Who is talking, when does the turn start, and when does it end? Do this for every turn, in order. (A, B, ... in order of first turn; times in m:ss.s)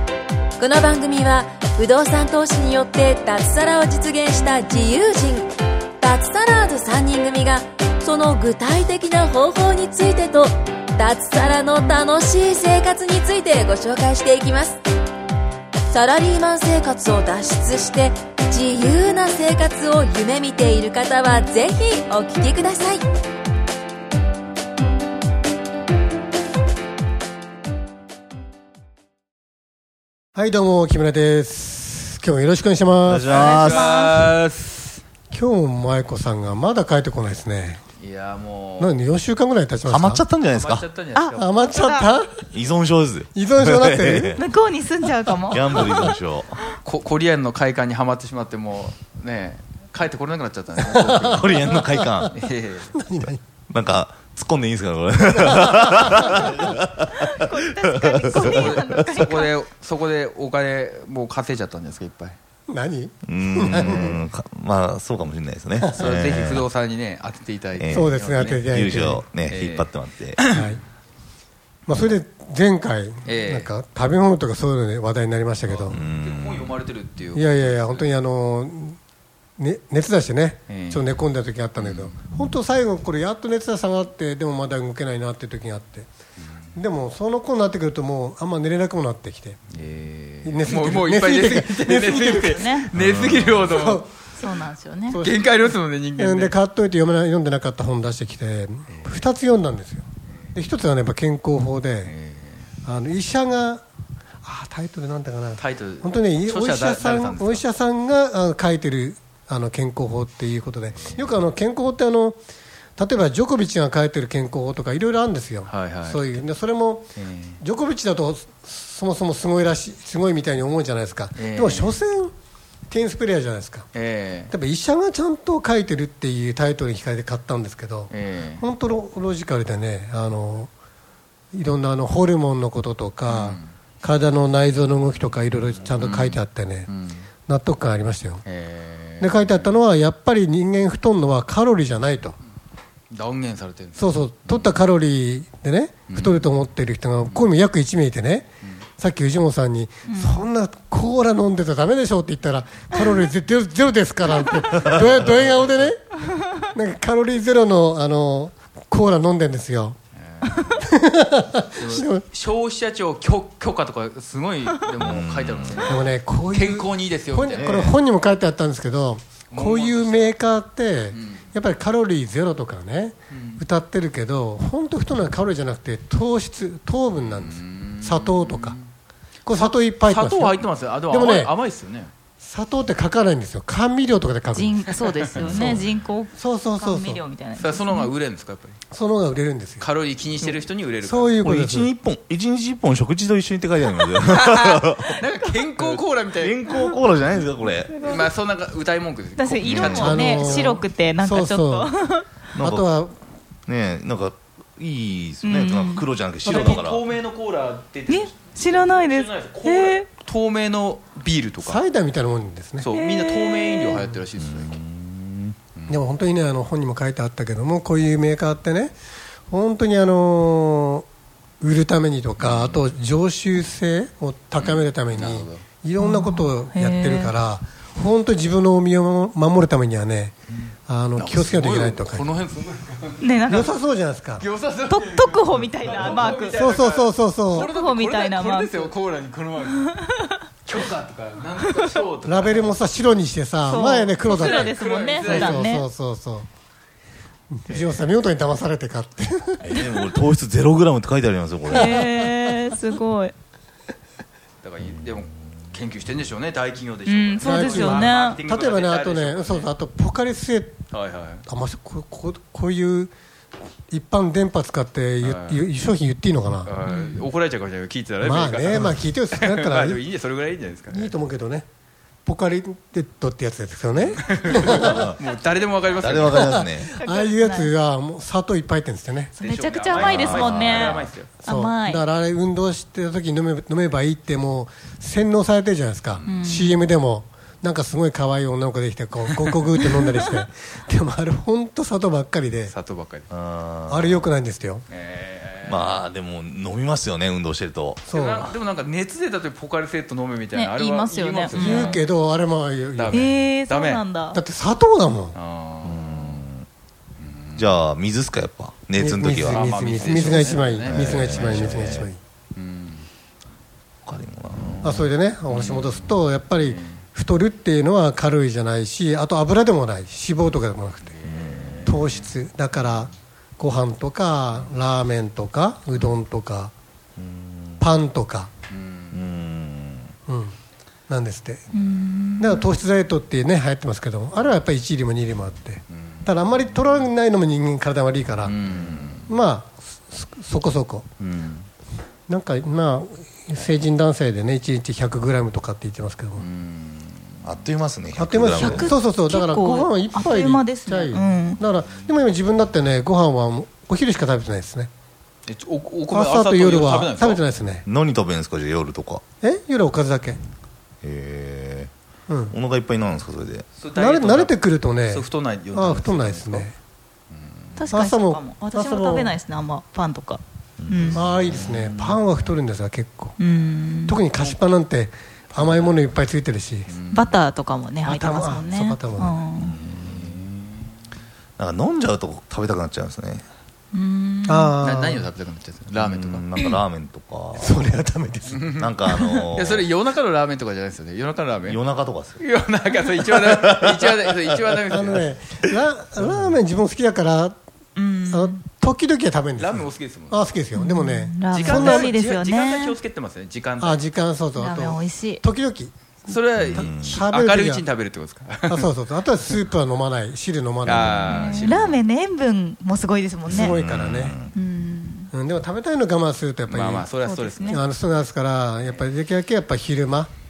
0:00.6-0:05.5 A
0:06.0-0:14.8 A
0:15.9-0:23.0 A
0:30.3-0:33.3 B
0:33.0-0:33.9 C
0:33.3-0:35.0 D
0:33.4-0:34.2 E
0:35.3-0:37.8 B
0:38.0-0:39.0 D
0:38.8-0:40.2 B
0:39.9-0:40.8 C
0:40.5-0:41.5 D
0:41.1-0:42.1 E
0:41.3-0:42.5 B
0:42.5-0:44.4 C
0:43.3-0:44.4 B
0:44.3-0:46.1 E
0:45.5-0:46.6 C
0:46.8-0:52.9 D
0:50.8-0:52.3 B
0:51.3-0:52.3 C
0:52.9-0:53.4 B
0:53.7-0:57.1 C
0:57.1-0:59.5 E
0:58.0-0:58.8 C
0:58.3-1:02.4 D
1:02.7-1:04.2 B
1:03.3-1:06.6 C
1:05.8-1:06.1 B
1:05.9-1:08.9 D
1:07.8-1:10.4 C
1:07.9-1:09.2 B
1:09.4-1:10.8 D
1:10.5-1:10.8 B
1:11.9-1:16.0 B
1:13.2-1:13.7 D
1:15.6-1:18.1 D
1:15.9-1:16.7 C
1:17.3-1:19.0 B
1:19.6-1:26.1 B
1:20.7-1:21.1 D
1:21.8-1:22.4 D
1:26.7-1:29.6 B
1:29.7-1:34.1 D
1:30.4-1:32.6 B
1:32.1-1:32.9 E
1:32.9-1:33.7 C
1:33.5-1:34.1 B
1:34.4-1:35.2 E
1:35.1-1:42.1 B
1:35.1-1:36.5 D
1:38.9-1:39.3 D
1:42.0-1:42.7 D
1:42.8-1:43.8 B
1:44.4-1:52.4 B
1:45.6-1:47.6 D
1:50.9-1:51.4 D
1:53.0-2:02.3 B
1:55.6-1:56.4 D
1:57.2-1:57.6 D
2:01.4-2:02.0 D
2:02.9-2:03.9 B
2:03.9-2:04.5 D
2:04.5-2:10.7 B
2:08.1-2:08.6 D
2:11.5-2:16.9 B
2:13.3-2:13.7 D
2:16.0-2:17.3 D
2:17.5-2:18.4 B
2:18.4-2:19.8 D
2:19.2-2:22.4 B
2:23.1-2:24.8 D
2:24.0-2:40.0 B
2:26.1-2:26.6 D
2:30.0-2:30.4 E
2:32.9-2:33.3 E
2:34.9-2:35.2 C
2:40.2-2:40.9 D
2:40.8-2:42.2 B
2:41.7-2:47.9 D
2:45.0-2:46.0 C
2:45.8-2:58.8 B
2:47.5-2:48.0 C
2:49.5-2:50.4 D
2:51.1-2:51.4 D
2:53.3-2:53.6 D
2:57.2-2:58.9 D
2:59.4-3:01.5 B
2:59.5-3:02.1 D
3:02.4-3:05.0 B
3:04.5-3:08.1 E
3:05.0-3:05.9 D
3:05.4-3:05.8 C
3:06.4-3:07.2 B
3:07.5-3:08.8 D
3:08.9-3:09.9 B
3:09.8-3:11.3 D
3:10.4-3:11.9 B
3:11.4-3:15.2 C
3:14.2-3:16.9 D
3:15.8-3:18.3 C
3:18.0-3:20.8 D
3:19.4-3:22.3 E
3:19.7-3:20.4 C
3:19.8-3:21.9 B
3:22.6-3:22.9 C
3:22.6-3:23.2 B
3:23.7-3:27.0 C
3:25.4-3:26.0 E
3:26.4-3:31.8 D
3:26.4-3:26.8 B
3:28.1-3:30.1 E
3:31.6-3:32.9 B
3:32.8-3:34.8 D
3:32.9-3:34.0 E
3:33.9-3:34.2 B
3:34.4-3:35.6 C
3:35.9-3:38.9 B
3:39.5-3:41.0 B
3:41.6-3:50.3 B
3:42.4-3:43.0 D
3:44.6-3:45.6 D
3:46.0-3:47.3 E
3:50.5-3:53.3 D
3:50.9-3:52.3 B
3:53.2-3:53.8 E
3:53.5-3:54.4 B
3:54.4-3:59.9 D
3:54.9-3:56.6 E
3:56.5-3:57.7 B
3:57.5-3:58.9 E
3:59.8-4:00.4 E
4:00.6-4:02.8 D
4:02.2-4:06.5 B
4:03.6-4:05.9 E
4:04.2-4:05.7 D
4:07.5-4:09.7 B
4:07.7-4:08.0 D
4:09.6-4:12.0 C
4:11.7-4:13.3 E
4:14.6-4:19.7 D
4:14.8-4:15.2 C
4:17.1-4:18.4 E
4:17.4-4:20.8 B
4:20.9-4:21.4 D
4:21.4-4:23.1 B
4:23.9-4:26.7 B
4:25.2-4:25.7 D
4:26.6-4:31.2 D
4:26.8-4:27.2 E
4:28.2-4:30.0 B
4:30.9-4:31.6 B
4:32.2-4:35.1 B
4:34.0-4:36.6 D
4:34.6-4:35.2 C
4:36.0-4:36.9 C
4:36.3-4:39.3 B
4:37.0-4:37.7 E
4:39.3-4:42.0 E
4:39.4-4:41.4 D
4:39.9-4:40.9 C
4:41.4-4:52.7 B
4:46.2-4:46.9 E
4:50.0-4:50.3 E
4:52.7-4:53.3 D
4:53.3-4:54.3 C
4:53.9-4:54.8 B
4:54.9-4:56.0 D
4:55.6-4:58.1 C
4:58.0-4:58.5 B
4:58.1-5:02.1 D
5:00.5-5:02.0 E
5:01.5-5:03.3 B
5:03.0-5:04.0 D
5:03.1-5:04.4 E
5:04.3-5:05.4 B
5:05.3-5:06.4 D
5:05.8-5:06.7 C
5:07.2-5:07.8 D
5:07.6-5:12.1 C
5:09.0-5:12.2 B
5:09.4-5:13.1 D
5:14.0-5:15.0 C
5:14.5-5:17.0 D
5:14.8-5:21.2 B
5:21.0-5:22.3 D
5:21.2-5:22.0 C
5:21.8-5:26.7 B
5:25.9-5:26.2 D
5:27.2-5:27.8 C
5:27.8-5:28.5 B
5:28.7-5:29.3 D
5:29.1-5:30.1 C
5:30.3-5:30.6 B
5:31.1-5:31.7 B
5:31.7-5:32.7 E
5:32.4-5:38.6 B
5:35.9-5:37.0 D
5:38.4-5:39.4 D
5:39.3-5:41.0 B
5:41.2-5:41.7 D
5:42.3-5:46.4 B
5:46.4-5:47.6 D
5:47.4-5:48.9 C
5:48.2-5:54.9 B
5:48.5-5:51.6 E
5:55.5-5:57.4 D
5:56.1-5:57.8 B
5:57.8-5:59.2 C
5:59.4-6:00.4 B
6:01.0-6:01.9 C
6:02.3-6:02.5 B
6:02.5-6:03.6 C
6:03.7-6:06.7 D
6:03.9-6:06.8 B
6:07.3-6:07.9 D
6:07.8-6:11.2 E
6:07.9-6:09.3 B
6:10.8-6:11.8 C
6:11.1-6:13.4 B
6:11.4-6:12.5 D
6:13.4-6:14.2 E
6:14.0-6:16.9 B
6:14.3-6:14.6 D
6:15.5-6:16.0 D
6:16.9-6:17.5 D
6:17.1-6:19.8 E
6:18.0-6:19.4 B
6:19.5-6:20.4 C
6:19.6-6:20.8 D
6:21.6-6:23.4 C
6:23.9-6:24.8 E
6:24.4-6:25.3 B
6:24.8-6:26.7 D
6:26.0-6:27.8 C
6:27.6-6:28.7 B
6:28.5-6:28.9 D
6:28.7-6:29.8 C
6:29.4-6:31.8 D
6:31.7-6:32.4 C
6:32.4-6:35.3 D
6:33.4-6:34.1 C
6:34.9-6:37.6 B
6:38.0-6:38.6 E
6:38.2-6:42.1 B
6:39.6-6:40.6 D
6:40.7-6:43.0 E
6:41.5-6:44.0 D
6:43.8-6:45.9 B
6:44.6-6:45.4 E
6:46.3-6:48.9 D
6:46.6-6:47.2 C
6:46.7-6:47.8 B
6:48.6-6:51.6 B
6:50.8-6:52.0 D
6:51.0-6:51.4 C
6:51.3-6:53.8 E
6:53.5-6:54.4 B
6:53.5-6:54.5 C
6:54.5-6:55.3 E
6:55.3-6:57.1 B
6:56.7-6:57.8 D
6:57.2-6:57.8 E
6:57.6-7:00.3 B